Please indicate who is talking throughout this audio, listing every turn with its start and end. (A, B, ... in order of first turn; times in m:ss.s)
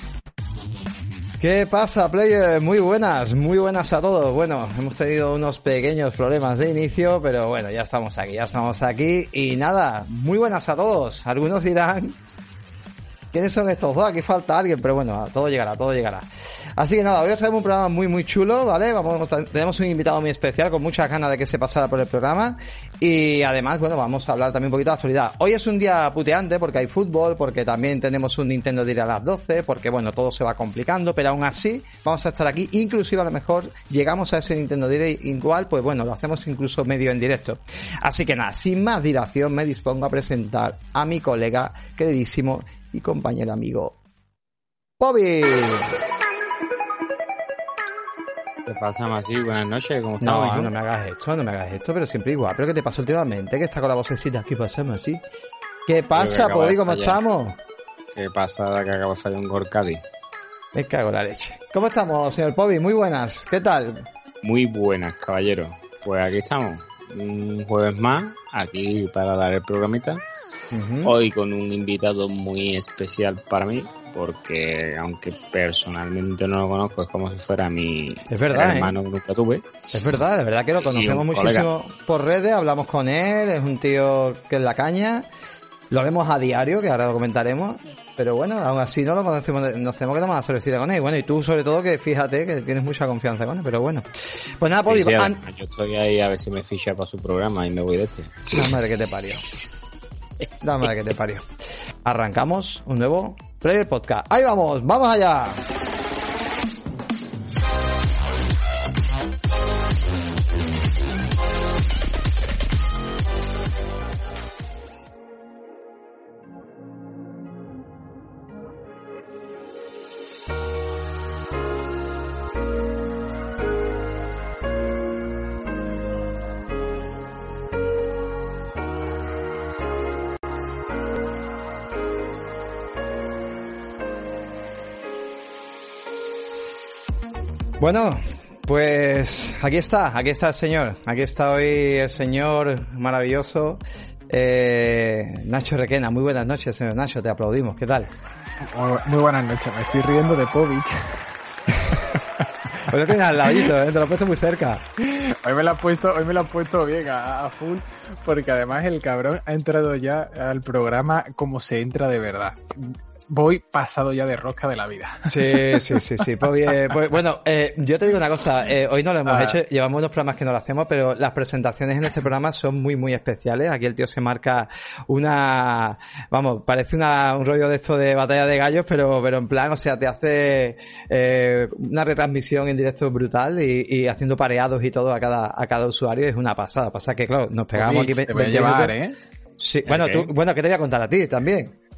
0:01.4-0:12.2 A
0:13.3-0:44.0 A
0:45.0-0:45.9 A
0:48.6-0:50.7 B
0:50.2-0:55.2 A
0:55.8-0:57.6 A
0:56.1-0:57.2 B
0:58.1-1:00.0 B
1:00.7-1:04.0 A
1:04.4-1:10.2 B
1:10.7-1:11.1 A
1:11.0-1:19.8 B
1:18.3-1:18.9 A
1:19.9-1:25.2 A
1:20.8-1:21.7 B
1:25.9-1:35.4 A
1:34.9-1:38.7 B
1:38.5-1:39.4 A
1:40.6-1:41.5 A
1:42.0-1:45.6 A
2:17.8-2:28.1 A
2:28.6-2:31.3 C
2:32.8-2:34.8 A
2:35.0-2:46.3 C
2:45.2-3:08.9 A
2:49.2-2:49.6 C
3:07.8-3:09.2 C
3:09.6-3:11.8 A
3:09.8-3:10.3 B